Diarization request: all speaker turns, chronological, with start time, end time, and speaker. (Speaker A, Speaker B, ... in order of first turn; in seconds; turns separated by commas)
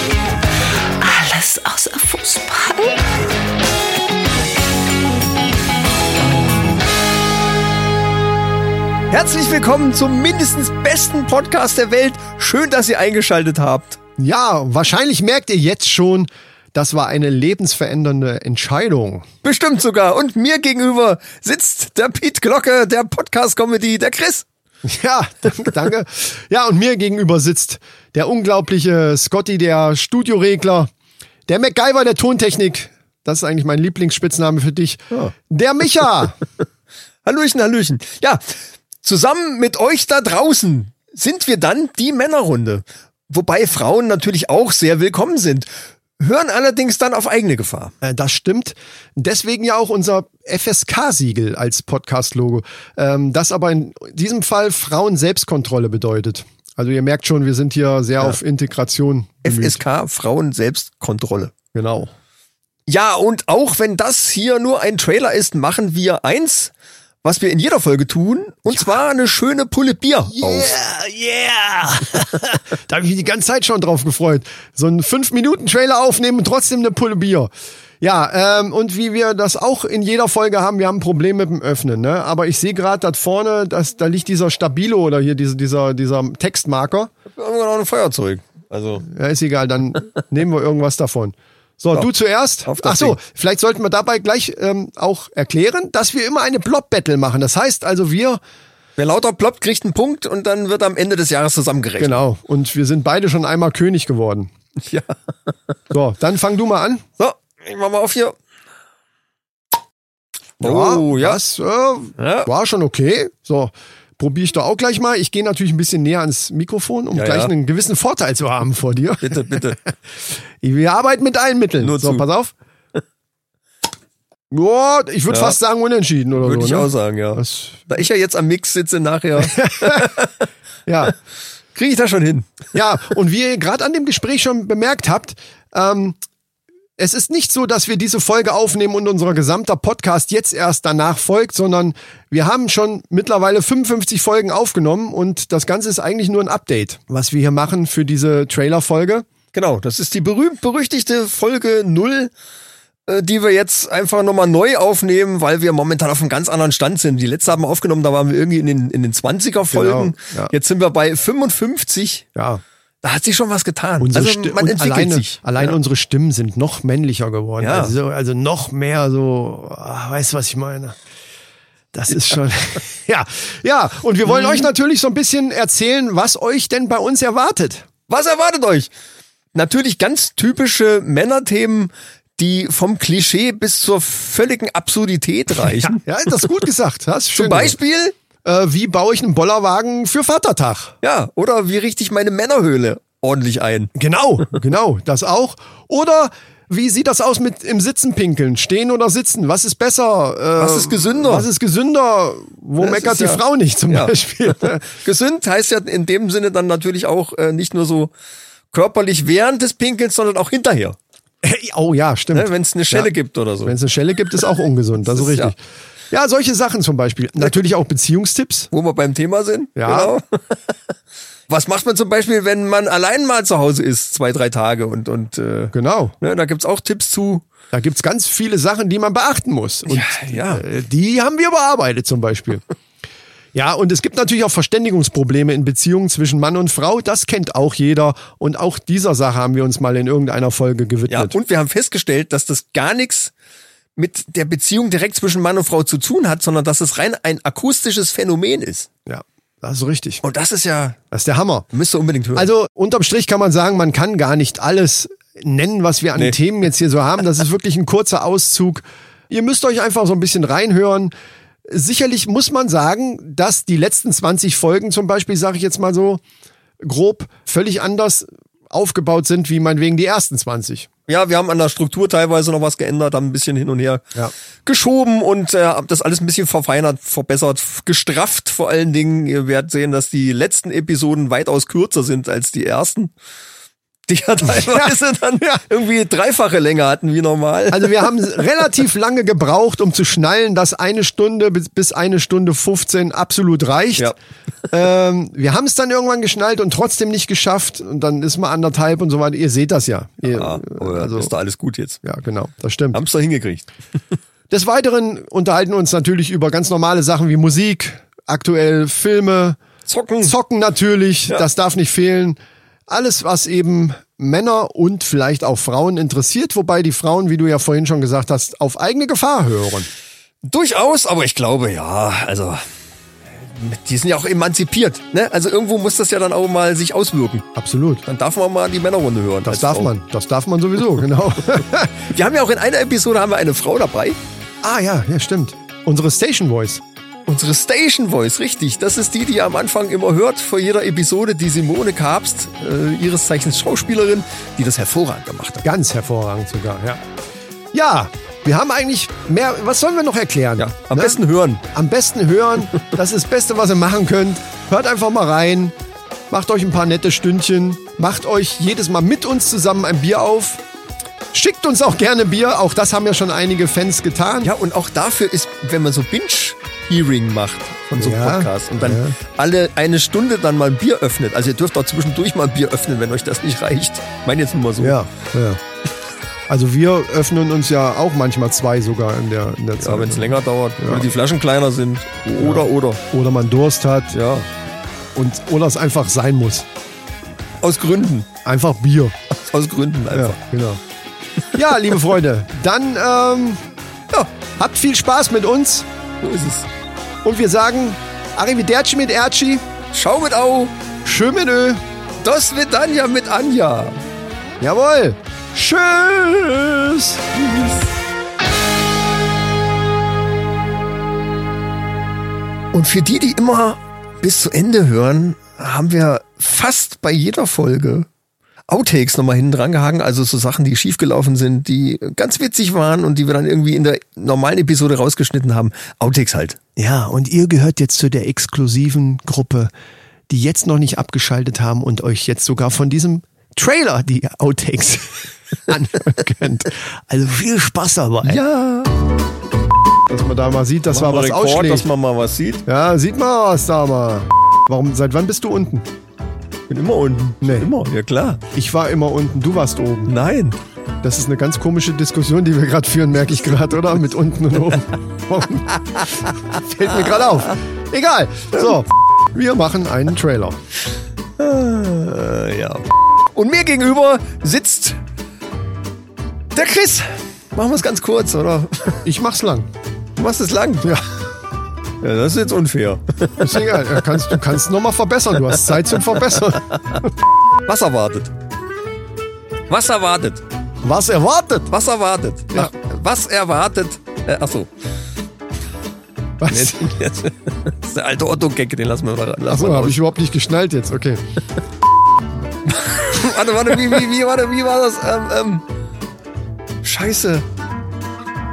Speaker A: 1.0-3.0, Speaker B: 9.1-14.0, Speaker C: 14.2-19.3, Speaker B: 19.4-24.4, Speaker C: 24.8-30.9, Speaker C: 31.5-36.4, Speaker B: 37.2-47.9, Speaker C: 48.0-59.8, Speaker B: 59.4-61.5, Speaker C: 61.7-62.1, Speaker B: 62.9-66.7, Speaker B: 67.2-70.8, Speaker C: 68.7-69.0, Speaker C: 70.3-87.1, Speaker B: 87.3-89.1, Speaker C: 89.0-98.4, Speaker B: 92.7-93.2, Speaker B: 99.0-102.2, Speaker C: 102.0-104.5, Speaker B: 104.8-105.5, Speaker C: 105.9-107.0, Speaker B: 107.2-108.3, Speaker B: 110.6-111.4, Speaker C: 110.6-119.9, Speaker B: 112.2-112.5, Speaker B: 117.1-117.5, Speaker B: 119.2-119.8, Speaker C: 120.6-122.5, Speaker B: 121.8-122.2, Speaker C: 124.5-127.9, Speaker B: 125.3-125.6, Speaker B: 126.4-130.4, Speaker C: 129.4-130.1, Speaker C: 130.8-131.1, Speaker B: 131.7-132.6, Speaker C: 132.7-136.2, Speaker C: 137.0-149.2, Speaker B: 149.5-152.3, Speaker B: 153.1-162.2, Speaker C: 159.7-160.5, Speaker C: 162.3-162.6, Speaker B: 163.0-165.8, Speaker C: 164.0-171.0, Speaker B: 167.6-167.9, Speaker C: 171.9-177.8, Speaker B: 178.1-178.9, Speaker B: 179.5-186.0, Speaker C: 185.6-187.8, Speaker B: 187.3-188.1, Speaker C: 188.4-190.9, Speaker B: 191.0-193.9, Speaker C: 193.9-204.8, Speaker B: 200.6-201.5, Speaker B: 202.8-208.1, Speaker B: 208.7-211.0, Speaker C: 211.4-213.1, Speaker B: 212.3-213.8, Speaker C: 213.6-215.6, Speaker B: 215.0-215.5, Speaker C: 216.1-218.7, Speaker B: 218.7-220.7, Speaker C: 219.8-220.1, Speaker B: 221.5-227.4, Speaker C: 225.7-226.1, Speaker C: 227.7-232.6, Speaker B: 229.8-230.6, Speaker C: 233.5-241.4, Speaker B: 241.1-243.3, Speaker B: 243.9-248.9, Speaker C: 249.1-250.2, Speaker B: 250.2-251.0, Speaker C: 251.1-251.7, Speaker B: 251.7-252.5, Speaker C: 252.3-261.1, Speaker C: 261.7-266.2, Speaker C: 266.8-270.9, Speaker B: 271.1-274.0, Speaker B: 274.6-283.1, Speaker B: 284.1-288.2, Speaker C: 284.4-285.6, Speaker C: 287.7-294.1, Speaker C: 294.7-301.3, Speaker B: 300.2-302.0, Speaker C: 302.0-303.0, Speaker B: 302.9-303.7, Speaker C: 304.5-309.6, Speaker B: 309.9-310.3, Speaker C: 310.2-319.9, Speaker B: 320.4-322.6, Speaker B: 323.4-327.4, Speaker C: 327.6-328.0, Speaker B: 328.0-329.9, Speaker C: 329.4-332.0, Speaker B: 332.0-334.2, Speaker C: 334.6-336.8, Speaker B: 337.2-345.7, Speaker C: 345.6-347.0, Speaker C: 347.7-355.7, Speaker B: 350.6-351.6, Speaker C: 356.3-360.6, Speaker C: 361.3-364.5, Speaker B: 364.4-375.0, Speaker C: 367.9-369.2, Speaker C: 374.8-375.6, Speaker C: 376.5-381.1, Speaker B: 379.8-383.0, Speaker C: 382.4-384.1, Speaker B: 384.1-384.5, Speaker C: 385.1-386.6, Speaker B: 387.6-388.3, Speaker C: 388.4-389.1, Speaker B: 389.4-390.4, Speaker C: 390.1-390.8, Speaker C: 391.5-393.6, Speaker C: 394.6-395.9, Speaker B: 396.2-396.7, Speaker C: 397.2-399.6, Speaker B: 399.9-400.7, Speaker C: 401.0-401.8, Speaker B: 402.2-404.0, Speaker C: 404.6-407.2, Speaker B: 407.4-407.8, Speaker B: 412.7-418.1, Speaker B: 418.7-426.6, Speaker C: 426.8-429.7, Speaker C: 430.3-438.4, Speaker B: 438.2-438.9, Speaker C: 440.1-441.9, Speaker B: 440.9-442.6, Speaker C: 442.6-445.9, Speaker B: 446.7-448.4, Speaker C: 447.4-447.7, Speaker C: 448.5-450.1, Speaker B: 450.1-450.6, Speaker C: 451.0-460.6, Speaker B: 461.4-465.0, Speaker B: 466.5-469.0, Speaker C: 469.0-469.7, Speaker B: 470.1-471.0, Speaker B: 472.0-473.8, Speaker C: 473.4-477.1, Speaker B: 477.6-478.3, Speaker B: 479.7-480.4, Speaker C: 480.8-481.7, Speaker B: 481.7-484.7, Speaker C: 486.4-486.8, Speaker B: 486.5-490.0, Speaker C: 489.5-491.2, Speaker B: 492.6-495.6, Speaker B: 496.8-497.4